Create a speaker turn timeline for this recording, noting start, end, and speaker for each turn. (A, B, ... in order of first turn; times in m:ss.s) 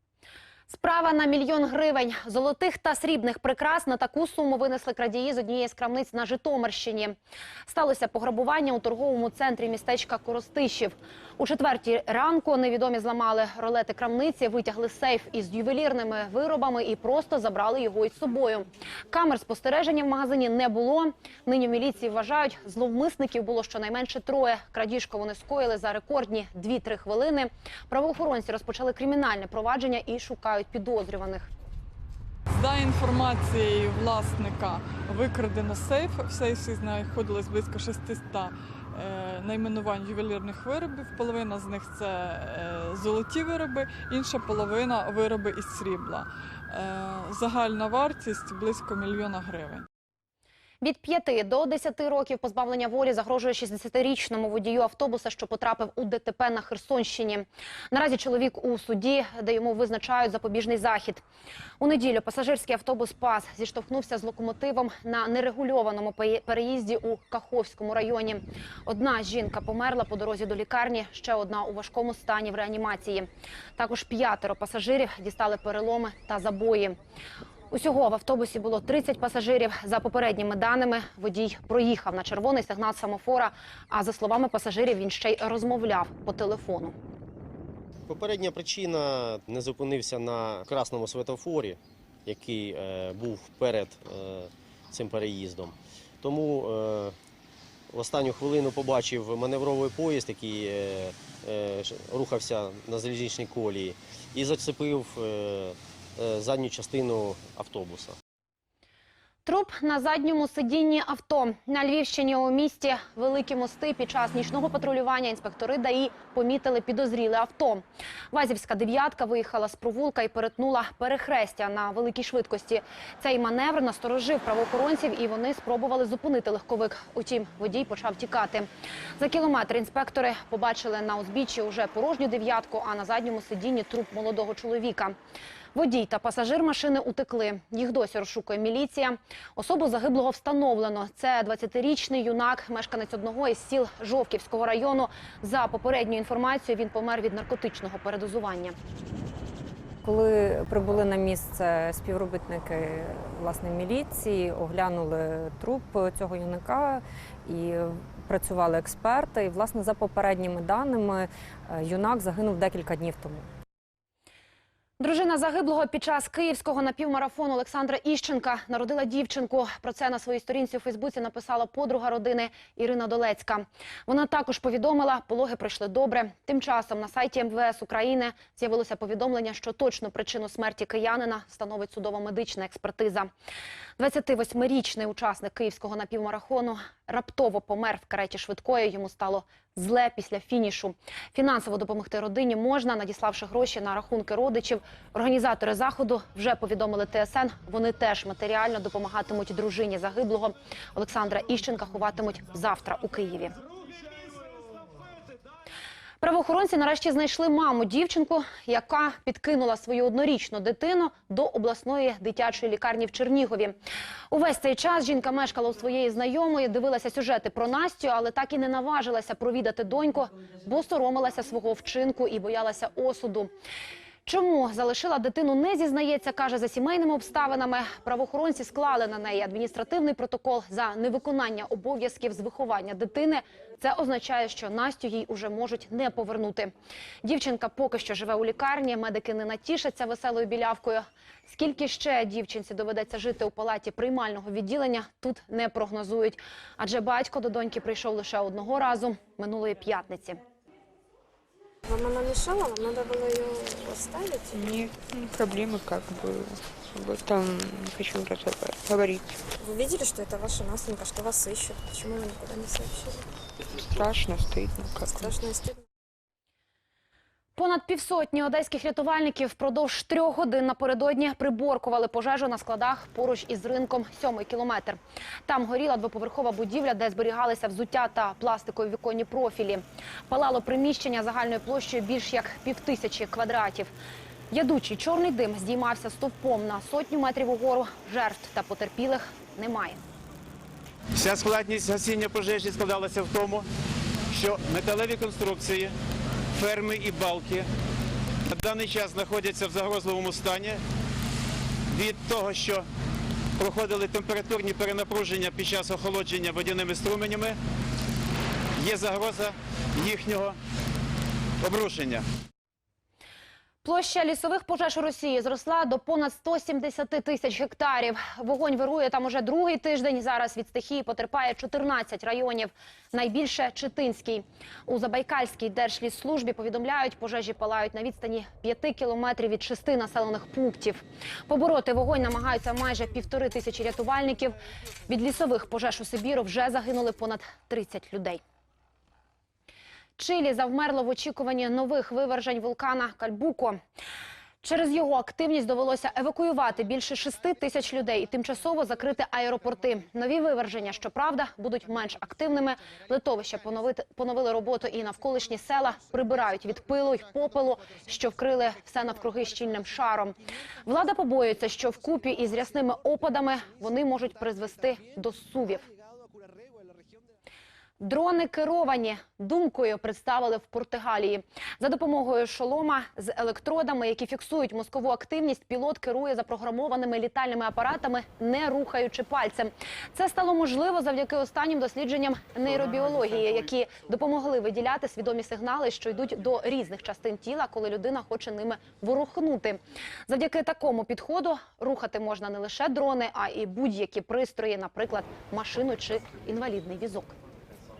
0:00.7-0:31.5 A
0:32.5-0:49.8 B
0:50.8-1:01.2 A
1:01.8-1:17.0 A
1:17.7-1:26.9 A
1:28.1-1:37.1 C
1:37.9-1:48.1 C
1:49.4-2:15.2 A
2:15.7-2:28.8 A
2:30.0-2:43.5 D
2:45.0-3:03.3 A
3:04.0-3:23.5 A
3:26.2-3:33.8 A
3:34.3-3:43.5 A
3:44.2-3:56.7 A
3:57.2-4:10.4 A
4:11.8-4:14.8 E
4:14.5-4:19.4 F
4:19.6-4:23.2 E
4:23.9-4:25.3 F
4:25.1-4:25.8 E
4:27.6-4:43.9 A
4:44.5-4:50.0 A
4:51.2-4:53.6 G
4:54.3-4:55.9 G
4:56.6-4:57.7 G
4:58.5-5:00.8 G
5:01.9-5:02.8 G
5:03.6-5:07.6 G
5:08.8-5:10.6 G
5:11.6-5:12.2 G
5:13.8-5:38.4 A
5:40.2-5:43.8 A
5:44.6-6:05.8 A
6:08.0-6:37.3 A